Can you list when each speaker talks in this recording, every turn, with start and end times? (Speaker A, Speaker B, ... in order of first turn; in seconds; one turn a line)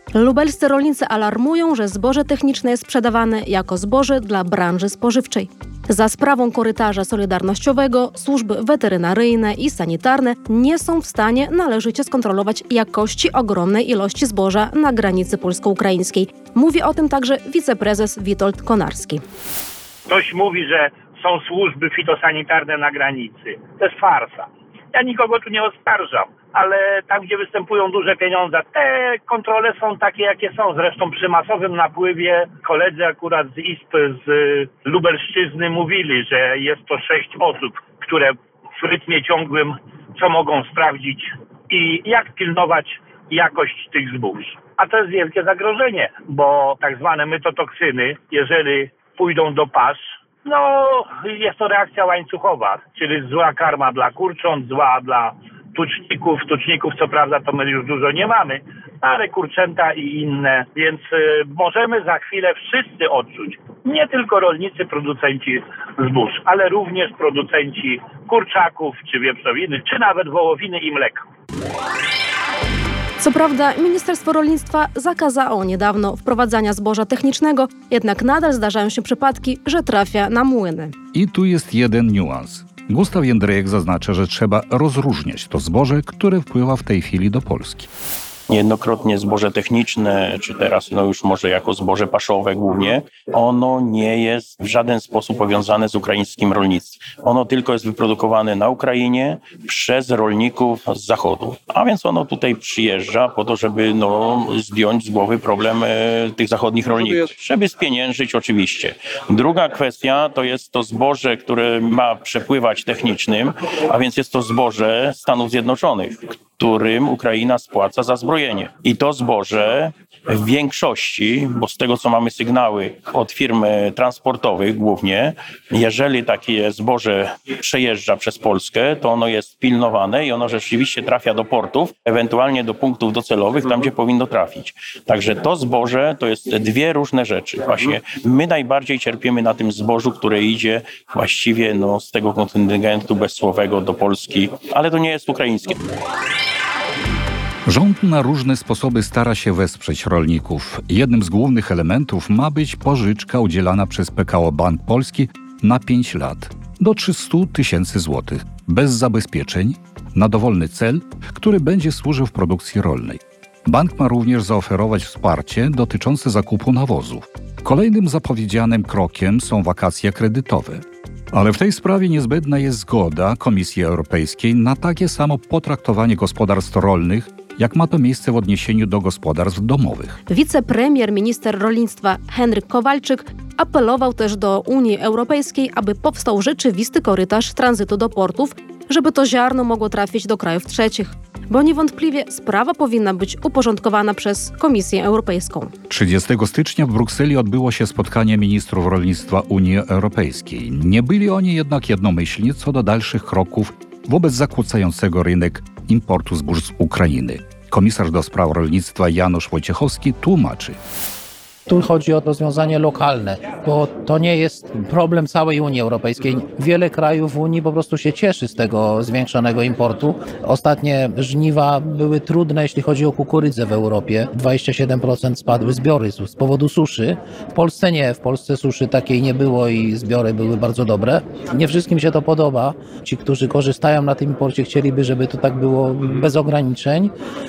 Speaker A: 0.1-19.2
Speaker B: 20.1-71.2
Speaker A: 73.2-80.9
Speaker C: 81.1-87.9
Speaker D: 88.5-145.8
Speaker C: 147.7-180.2
Speaker A: 180.3-195.7
Speaker C: 195.9-210.8
Speaker E: 211.7-237.1